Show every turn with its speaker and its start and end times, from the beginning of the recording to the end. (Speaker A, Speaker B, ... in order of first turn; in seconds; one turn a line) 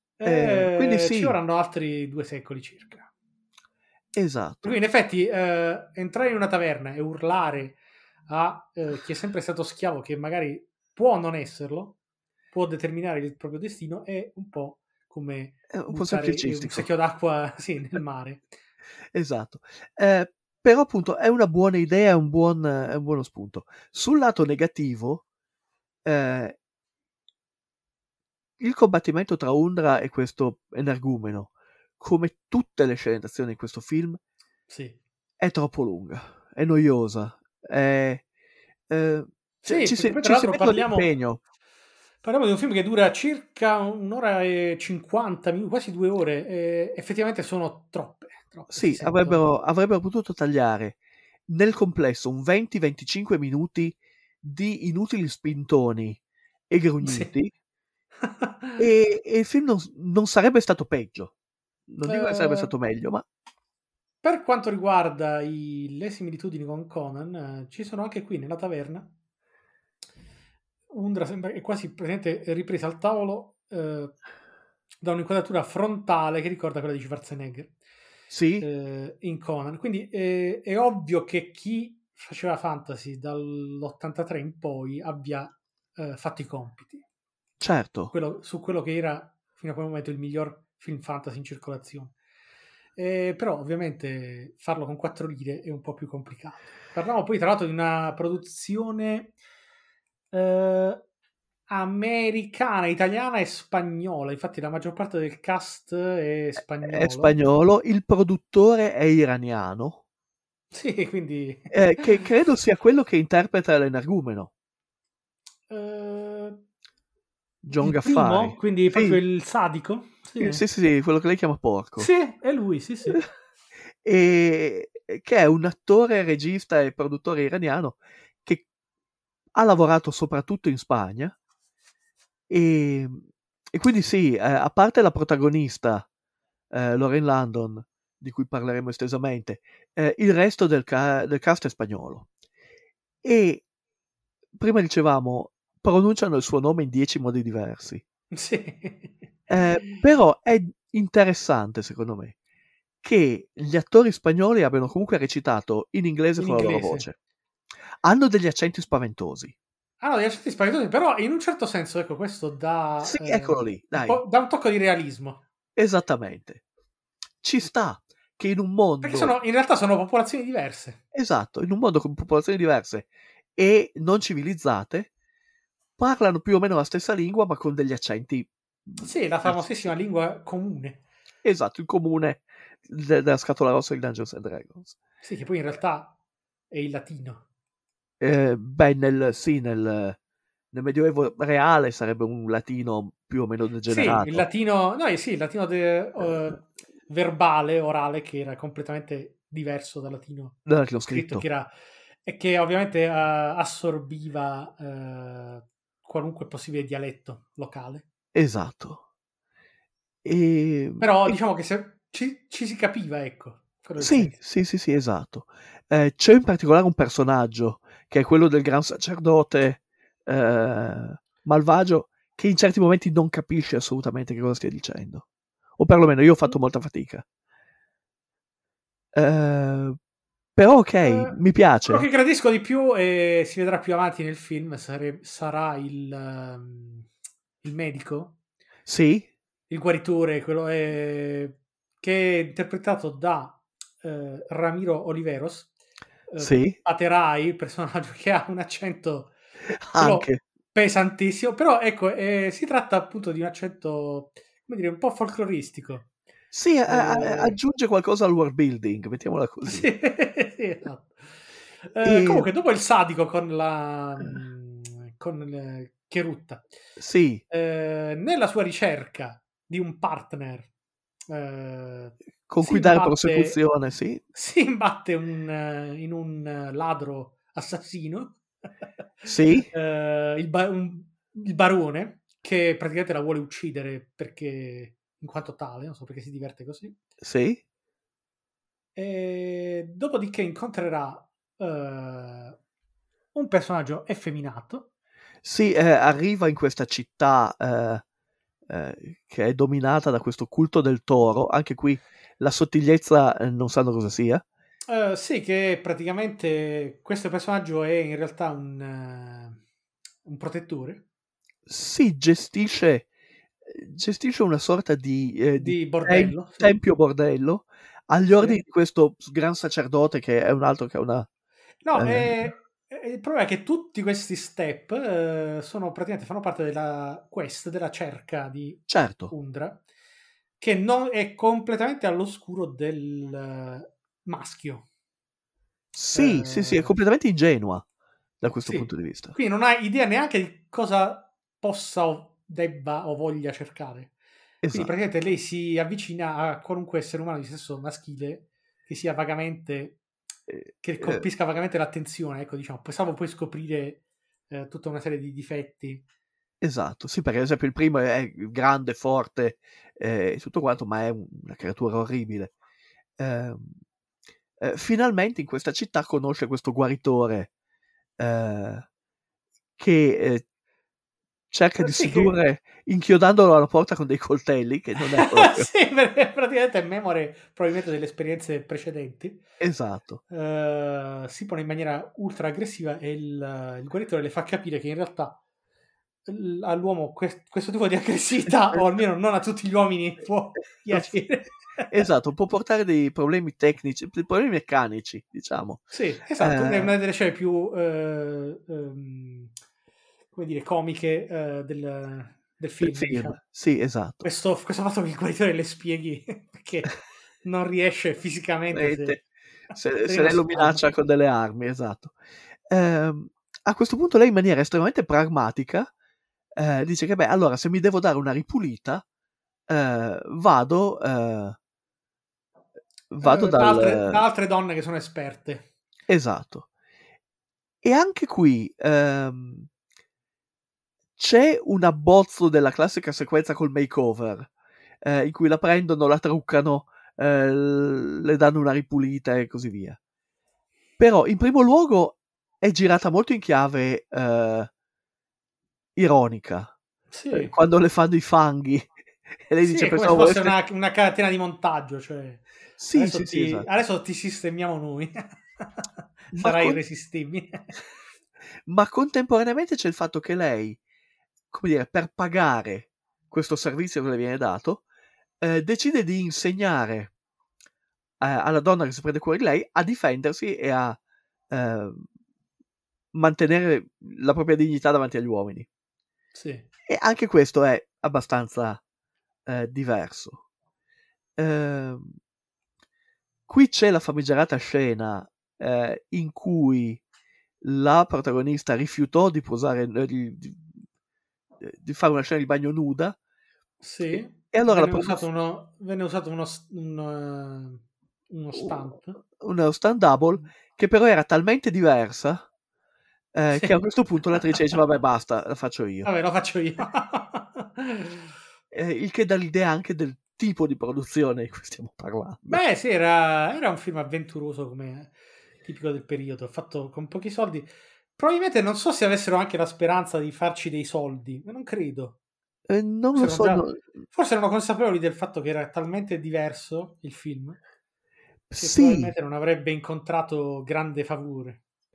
Speaker A: 0.2-3.1
Speaker B: 0.2-1.4
Speaker B: 4.1-4.8
Speaker A: 4.6-12.0
Speaker A: 12.5-18.5
Speaker B: 15.7-16.9
Speaker B: 19.1-25.2
Speaker B: 26.0-26.6
Speaker B: 28.6-34.2
Speaker A: 34.7-35.0
Speaker B: 35.4-38.2
Speaker B: 38.9-41.4
Speaker A: 39.6-41.1
Speaker A: 42.2-49.4
Speaker B: 48.7-57.5
Speaker A: 57.0-57.3
Speaker A: 58.2-58.8
Speaker B: 58.8-61.3
Speaker B: 61.9-63.2
Speaker A: 62.0-62.7
Speaker A: 64.2-69.1
Speaker A: 70.9-74.2
Speaker A: 75.0-77.7
Speaker B: 78.3-78.7
Speaker A: 78.6-87.0
Speaker B: 87.6-88.1
Speaker A: 88.1-92.1
Speaker A: 93.0-99.3
Speaker A: 100.3-101.0
Speaker A: 101.7-107.3
Speaker B: 106.8-110.0
Speaker A: 110.7-112.0
Speaker B: 111.7-114.5
Speaker A: 115.7-116.6
Speaker B: 117.6-119.2
Speaker A: 117.8-120.6
Speaker B: 120.4-122.1
Speaker A: 122.0-123.2
Speaker B: 124.0-128.7
Speaker B: 129.5-131.3
Speaker B: 132.5-133.2
Speaker B: 133.7-136.1
Speaker B: 136.7-142.3
Speaker B: 143.2-143.6
Speaker B: 144.6-148.0
Speaker A: 148.3-149.2
Speaker B: 149.5-152.3
Speaker B: 153.0-157.2
Speaker A: 156.4-157.1
Speaker B: 158.0-159.5
Speaker A: 160.0-165.4
Speaker B: 163.0-164.2
Speaker B: 165.8-166.6
Speaker B: 167.4-169.3
Speaker A: 169.0-171.0
Speaker B: 171.1-175.1
Speaker B: 176.0-179.7
Speaker A: 179.0-181.0
Speaker B: 181.4-184.9
Speaker A: 185.2-186.1
Speaker A: 186.7-187.4
Speaker B: 188.2-190.2
Speaker B: 190.7-194.5
Speaker A: 193.9-201.7
Speaker B: 200.7-201.4
Speaker A: 202.2-208.0
Speaker B: 208.3-209.0
Speaker B: 210.2-211.4
Speaker A: 211.0-214.4
Speaker B: 214.0-225.3
Speaker B: 225.8-227.2
Speaker B: 229.1-230.0
Speaker B: 230.6-232.1
Speaker A: 231.0-237.1
Speaker A: 237.6-238.3
Speaker B: 238.8-239.3
Speaker A: 239.7-245.7
Speaker A: 246.3-249.3
Speaker B: 246.4-246.8
Speaker B: 249.8-250.4
Speaker A: 250.0-256.1
Speaker B: 256.5-259.9
Speaker A: 256.9-257.6
Speaker A: 259.6-261.2
Speaker A: 261.8-266.6
Speaker B: 262.0-262.5
Speaker B: 267.0-267.4
Speaker A: 267.5-270.7
Speaker A: 271.3-273.6
Speaker B: 272.5-274.2
Speaker A: 274.3-278.4
Speaker B: 279.3-279.7
Speaker A: 279.7-287.0
Speaker B: 287.2-287.6
Speaker A: 288.9-292.6
Speaker A: 293.3-294.9
Speaker B: 295.4-298.0
Speaker B: 298.7-304.4
Speaker A: 304.9-309.6
Speaker A: 310.2-311.0
Speaker B: 311.6-313.1
Speaker B: 313.7-321.3
Speaker A: 315.6-316.7
Speaker A: 321.8-329.8
Speaker B: 321.9-322.5
Speaker B: 328.9-329.3
Speaker A: 330.6-334.9
Speaker B: 335.9-337.8
Speaker A: 336.1-336.9
Speaker B: 338.4-339.4
Speaker A: 338.6-344.1
Speaker B: 344.6-344.9
Speaker A: 344.7-350.0
Speaker B: 350.5-351.2
Speaker A: 350.8-356.0
Speaker B: 356.6-362.5
Speaker B: 363.2-363.8
Speaker B: 364.6-367.5
Speaker B: 368.2-368.9
Speaker B: 369.8-370.4
Speaker B: 371.5-375.7
Speaker A: 371.8-372.3
Speaker A: 375.0-379.4
Speaker B: 379.6-380.2
Speaker A: 380.3-385.4
Speaker A: 386.3-391.9
Speaker B: 391.9-395.8
Speaker A: 395.9-399.5
Speaker B: 396.4-396.9
Speaker A: 400.3-403.4
Speaker B: 402.8-404.2
Speaker A: 404.2-406.9
Speaker A: 407.4-409.1
Speaker B: 408.7-412.1
Speaker A: 410.0-410.9
Speaker B: 412.7-415.9
Speaker B: 416.6-419.0
Speaker B: 419.7-421.6
Speaker B: 423.1-424.2
Speaker A: 423.2-425.6
Speaker B: 426.1-426.7
Speaker B: 427.8-429.7
Speaker B: 431.2-434.5
Speaker B: 435.0-440.0
Speaker B: 441.0-444.7
Speaker B: 446.0-446.7
Speaker A: 447.1-447.5
Speaker B: 447.3-450.5
Speaker A: 449.6-457.7
Speaker B: 452.8-453.6
Speaker B: 456.3-456.8
Speaker B: 458.7-460.8
Speaker B: 461.5-464.8
Speaker B: 465.4-467.1
Speaker B: 468.2-471.0
Speaker B: 471.5-472.1
Speaker B: 473.1-475.7
Speaker A: 476.3-476.6
Speaker B: 476.9-478.8
Speaker B: 479.5-480.4
Speaker B: 481.4-482.1
Speaker B: 483.5-487.0
Speaker B: 487.6-490.7
Speaker B: 491.6-493.2
Speaker A: 493.8-499.2
Speaker B: 494.1-495.2
Speaker B: 498.5-502.5
Speaker B: 503.3-506.1
Speaker A: 503.5-503.8
Speaker A: 506.0-508.3
Speaker B: 508.7-512.6
Speaker A: 512.5-522.2
Speaker B: 522.7-523.9
Speaker A: 523.1-527.6
Speaker B: 528.5-529.1
Speaker A: 528.5-531.6